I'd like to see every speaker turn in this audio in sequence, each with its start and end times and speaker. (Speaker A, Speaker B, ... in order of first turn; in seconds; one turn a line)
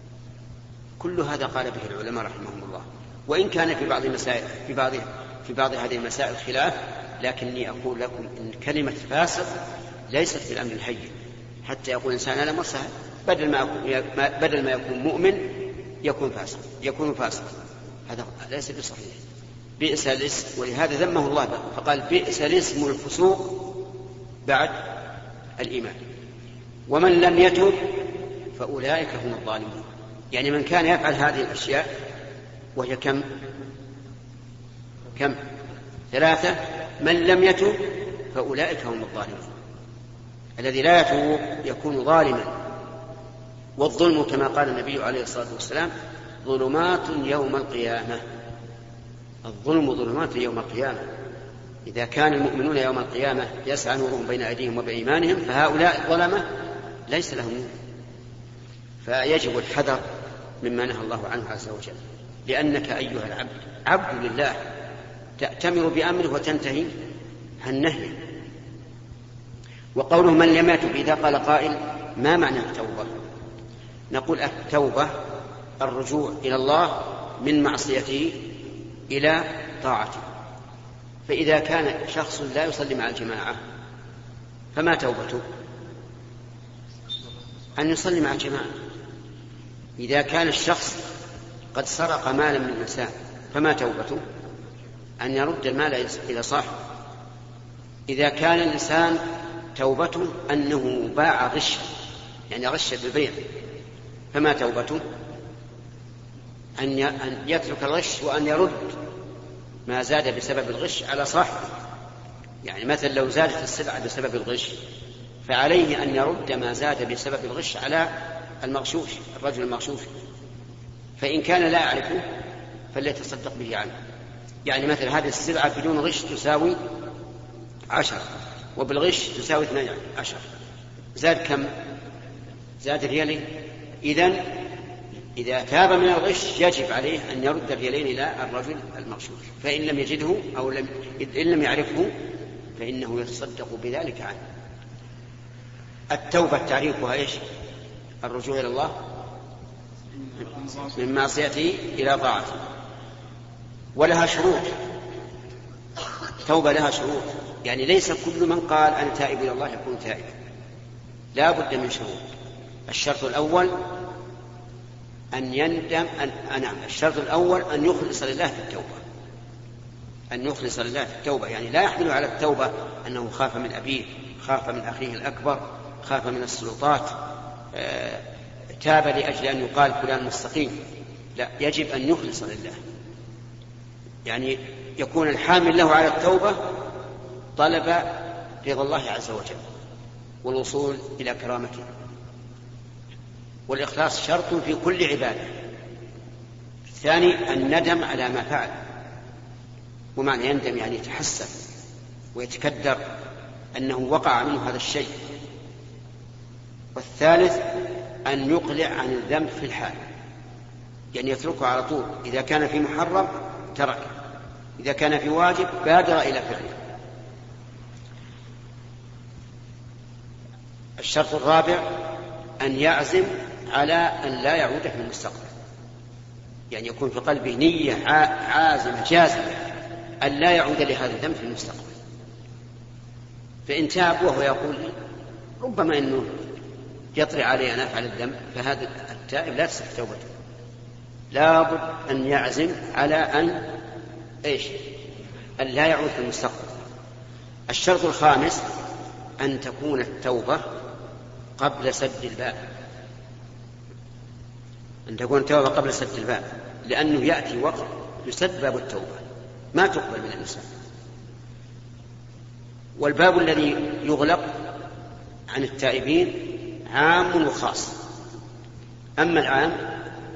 Speaker A: 1.0-9.5
Speaker A: 10.1-11.1
Speaker A: 11.6-15.5
Speaker A: 16.0-17.5
Speaker A: 18.1-19.2
Speaker A: 19.8-23.7
Speaker A: 24.4-24.8
Speaker A: 25.6-26.0
Speaker A: 26.9-28.0
Speaker A: 28.6-31.9
Speaker A: 32.8-33.2
Speaker A: 36.1-39.5
Speaker A: 40.6-42.5
Speaker A: 43.8-45.9
Speaker A: 46.4-48.2
Speaker A: 49.4-51.0
Speaker A: 51.9-56.5
Speaker A: 57.1-57.7
Speaker A: 59.0-60.0
Speaker A: 60.6-64.6
Speaker A: 65.4-66.9
Speaker A: 67.6-68.2
Speaker A: 70.0-73.1
Speaker A: 74.1-75.1
Speaker A: 75.8-78.5
Speaker A: 79.1-80.2
Speaker A: 81.3-83.6
Speaker A: 84.7-85.4
Speaker A: 87.8-88.7
Speaker A: 90.0-91.0
Speaker A: 91.7-94.2
Speaker A: 95.2-96.7
Speaker A: 98.1-99.2
Speaker A: 99.8-101.9
Speaker A: 102.5-103.4
Speaker A: 104.3-105.0
Speaker A: 106.8-109.0
Speaker A: 109.9-111.7
Speaker A: 112.6-114.8
Speaker A: 115.5-118.1
Speaker A: 118.6-120.1
Speaker A: 121.2-122.2
Speaker A: 122.9-123.9
Speaker A: 124.7-126.8
Speaker A: 127.9-130.4
Speaker A: 131.2-131.7
Speaker A: 132.8-133.5
Speaker A: 134.0-134.5
Speaker A: 135.3-142.1
Speaker A: 142.8-144.4
Speaker A: 146.1-147.4
Speaker A: 148.2-148.9
Speaker A: 150.4-152.6
Speaker A: 153.9-154.7
Speaker A: 156.4-160.3
Speaker A: 161.3-162.2
Speaker A: 162.9-163.7
Speaker A: 165.3-169.0
Speaker A: 170.3-177.2
Speaker A: 177.7-178.2
Speaker A: 178.8-180.8
Speaker A: 181.4-182.8
Speaker A: 184.2-186.6
Speaker A: 187.6-189.6
Speaker A: 190.4-191.9
Speaker A: 193.7-195.5
Speaker A: 197.0-198.7
Speaker A: 200.2-201.5
Speaker A: 202.3-203.0
Speaker A: 203.8-205.1
Speaker A: 206.9-207.6
Speaker A: 208.2-210.0
Speaker A: 211.1-214.1
Speaker A: 214.8-216.8
Speaker A: 221.0-221.9
Speaker A: 222.6-225.5
Speaker A: 226.7-229.7
Speaker A: 230.2-231.9
Speaker A: 233.7-234.9
Speaker A: 235.6-236.3
Speaker A: 237.1-240.3
Speaker A: 241.3-243.7
Speaker A: 244.4-244.7
Speaker A: 245.6-246.7
Speaker A: 247.7-248.6
Speaker A: 249.4-250.6
Speaker A: 251.6-252.6
Speaker A: 255.1-259.2
Speaker A: 259.7-260.7
Speaker A: 263.0-264.5
Speaker A: 265.5-267.9
Speaker A: 269.2-269.9